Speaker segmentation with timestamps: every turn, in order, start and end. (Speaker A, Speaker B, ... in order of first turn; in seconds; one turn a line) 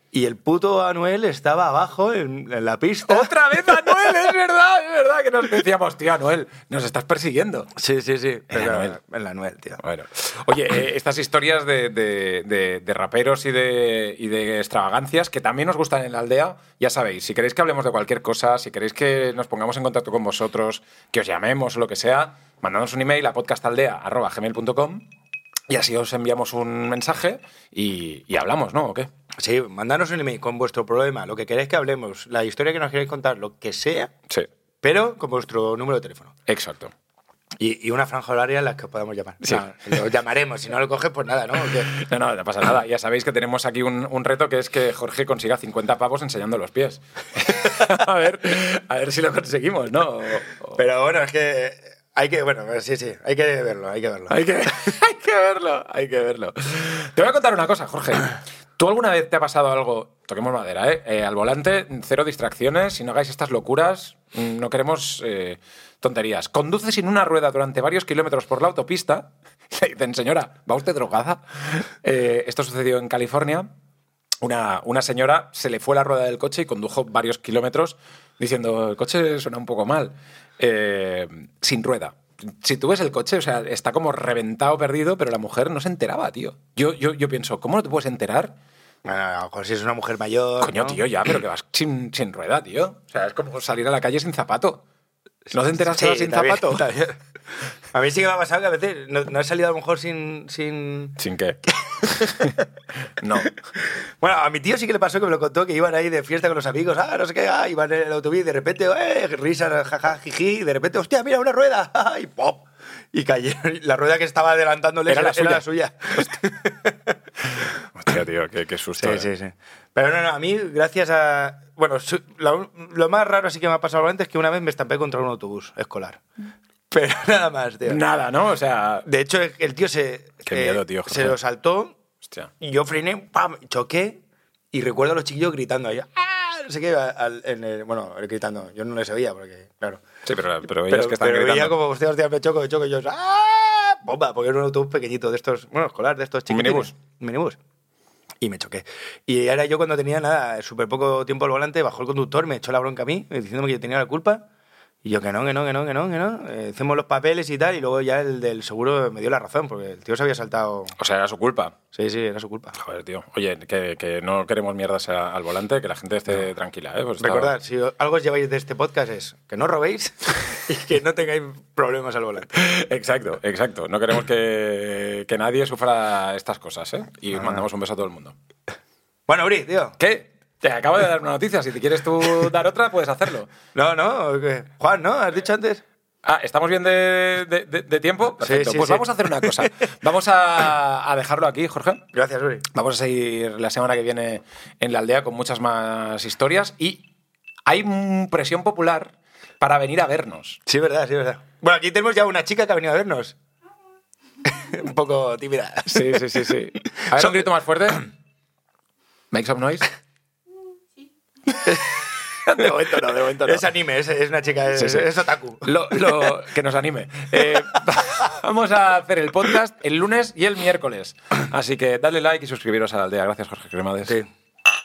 Speaker A: 0.1-3.4
Speaker B: 3.1-7.7
Speaker A: 7.8-9.8
Speaker B: 8.5-9.0
Speaker B: 9.8-25.1
Speaker B: 25.7-29.1
Speaker A: 29.4-34.1
Speaker A: 34.8-36.3
Speaker B: 36.5-36.9
Speaker A: 37.6-41.9
Speaker B: 41.6-50.8
Speaker A: 50.7-54.4
Speaker B: 54.3-73.7
Speaker B: 74.4-88.5
Speaker A: 89.0-91.0
Speaker B: 90.6-94.8
Speaker B: 95.5-96.8
Speaker A: 95.5-97.2
Speaker A: 97.9-101.2
Speaker B: 101.2-101.6
Speaker A: 101.7-102.6
Speaker B: 102.3-103.5
Speaker A: 103.8-117.1
Speaker B: 115.1-115.6
Speaker B: 117.5-119.3
Speaker A: 119.0-126.2
Speaker A: 126.9-128.0
Speaker B: 127.9-129.1
Speaker A: 129.0-131.9
Speaker B: 130.4-131.4
Speaker B: 132.2-132.5
Speaker A: 132.6-134.2
Speaker A: 134.7-140.0
Speaker B: 140.2-141.8
Speaker A: 140.8-147.6
Speaker B: 146.5-146.9
Speaker A: 148.4-154.4
Speaker A: 155.0-160.9
Speaker B: 161.0-161.8
Speaker A: 161.9-162.8
Speaker B: 162.7-167.5
Speaker A: 167.2-172.6
Speaker B: 172.6-178.4
Speaker A: 179.3-180.0
Speaker B: 180.0-183.5
Speaker A: 183.7-185.8
Speaker B: 186.2-192.0
Speaker A: 188.4-189.7
Speaker A: 192.1-192.7
Speaker B: 192.7-197.1
Speaker B: 197.7-200.6
Speaker A: 200.7-203.4
Speaker A: 204.4-207.4
Speaker B: 205.9-208.1
Speaker B: 209.3-209.9
Speaker A: 211.6-216.4
Speaker B: 212.4-213.7
Speaker B: 214.7-224.2